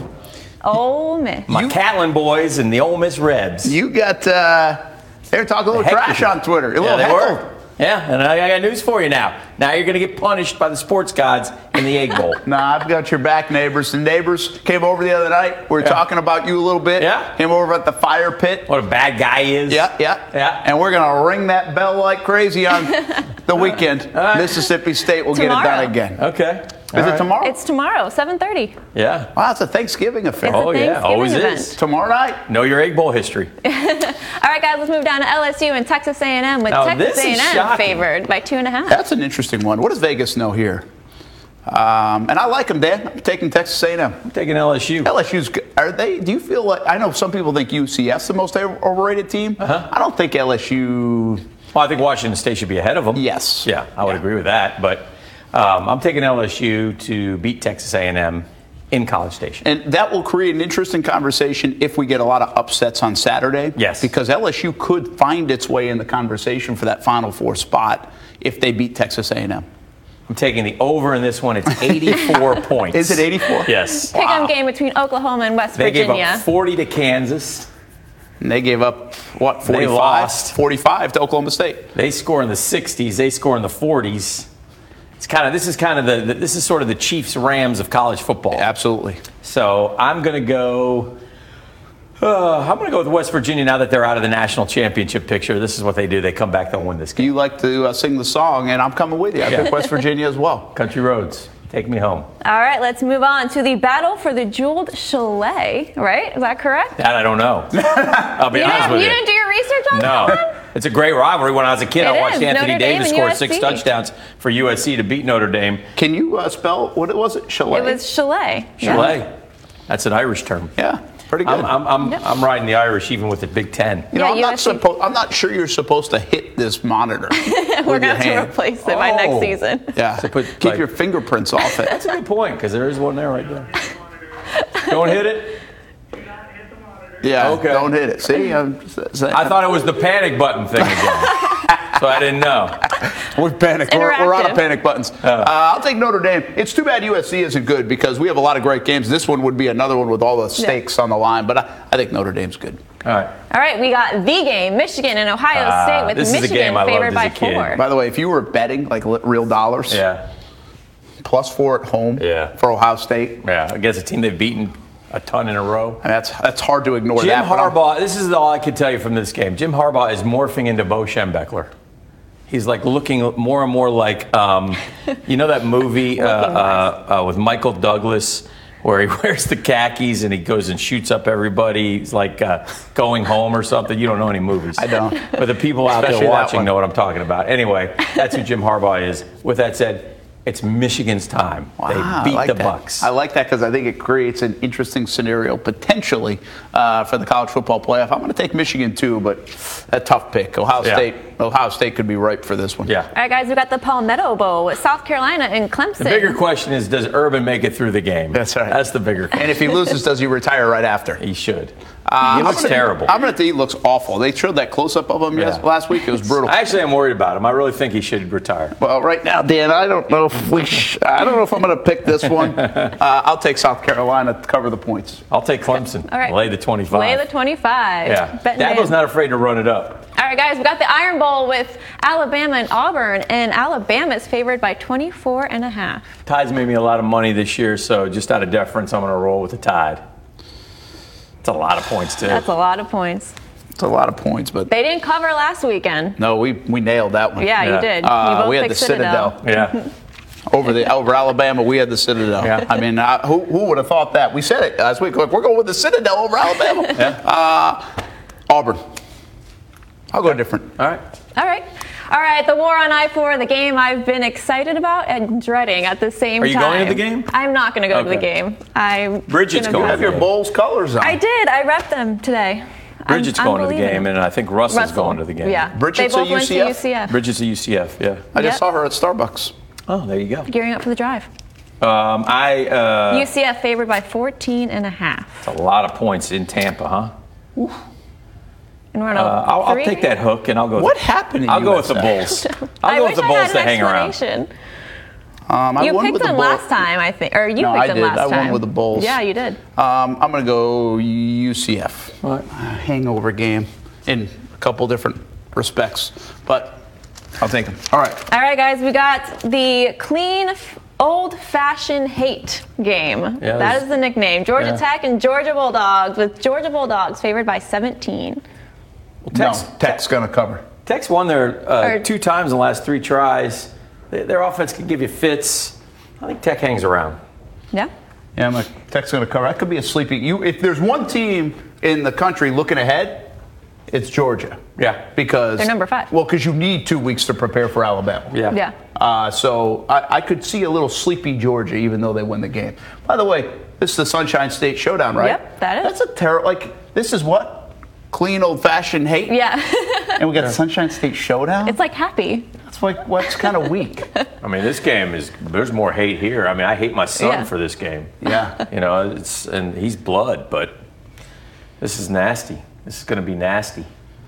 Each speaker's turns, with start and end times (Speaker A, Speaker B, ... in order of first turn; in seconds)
Speaker A: 0.6-1.5, 25.3-25.9, 27.4-28.8, 30.4-31.8, 33.6-39.0, 74.0-76.4, 102.4-107.0, 108.5-110.5, 112.0-113.9, 117.7-119.1, 124.1-124.8, 127.3-129.9, 143.9-144.6, 153.5-157.8, 176.2-176.8, 203.1-206.4, 226.1-228.9, 230.2-236.1, 242.2-243.3, 244.7-246.2, 247.4-249.4, 261.4-270.2, 271.0-274.1, 274.7-277.2, 280.5-281.3, 283.1-285.4, 288.9-290.1, 292.5-294.5, 295.8-299.6, 308.3-318.4, 335.6-336.1, 345.2-345.9, 349.3-350.2, 351.6-352.5, 357.2-357.5
Speaker B: 1.5-3.8, 5.7-12.4, 17.0-17.3, 18.7-20.6, 24.1-24.7, 26.2-27.3, 28.9-29.3, 30.4-31.8, 32.5-33.5, 36.7-38.0, 44.2-45.1, 49.6-49.9, 51.7-59.6, 63.8-64.1, 70.3-74.4, 75.8-77.7, 79.6-80.5, 81.9-84.5, 85.2-88.7, 89.4-91.2, 92.2-97.3, 99.5-99.8, 100.7-102.3, 107.0-109.2, 109.9-115.8, 118.8-119.3, 119.9-120.7, 121.4-124.1, 128.8-129.6, 130.2-130.8, 131.8-133.8, 134.8-135.6, 137.4-137.9, 139.3-142.9, 145.2-145.5, 153.0-153.3, 155.5-157.8, 159.9-160.2, 162.2-162.5, 163.4-166.0, 167.2-171.7, 172.5-193.1, 206.0-209.7, 211.2-213.1, 215.3-215.6, 216.2-218.8, 225.3-227.2, 228.0-230.0, 236.2-240.0, 241.4-242.4, 247.6-247.9, 249.4-249.8, 252.4-252.7, 266.4-267.3, 267.9-268.2, 269.3-270.3, 273.1-275.7, 277.1-278.2, 279.9-280.5, 281.8-283.3, 285.4-287.1, 289.1-294.1, 313.4-313.8, 319.2-319.9, 320.9-327.2, 334.8-335.0, 338.3-338.6, 354.4-358.1, 358.7-360.8, 361.8-363.9
Speaker C: 1.5-1.8, 3.6-7.4, 12.4-18.7, 19.7-26.2, 26.9-27.6, 29.3-30.6, 31.8-32.4, 38.9-40.9, 41.7-44.2, 45.0-51.4, 53.1-53.7, 59.6-69.6, 71.8-74.5, 78.4-81.9, 88.5-89.2, 97.2-100.7, 107.8-108.7, 116.0-118.0, 118.8-119.2, 120.8-121.7, 124.1-128.5, 129.9-132.0, 137.2-139.6, 140.9-141.8, 142.9-152.8, 157.8-160.0, 161.2-163.4, 166.0-167.8, 184.8-185.3, 185.9-186.7, 191.8-202.9, 208.3-208.8, 209.3-211.2, 212.1-216.6, 218.8-225.2, 243.8-244.7, 246.2-249.4, 250.5-257.9, 258.5-258.8, 260.1-260.7, 269.7-271.2, 275.7-276.8, 278.3-279.5, 290.7-292.2, 295.5-296.6, 297.6-299.2, 299.8-306.8, 307.4-308.2, 319.3-320.6, 328.4-333.3, 333.9-334.6, 335.1-338.4, 338.9-349.3, 350.2-351.8, 352.6-354.1, 358.2-358.6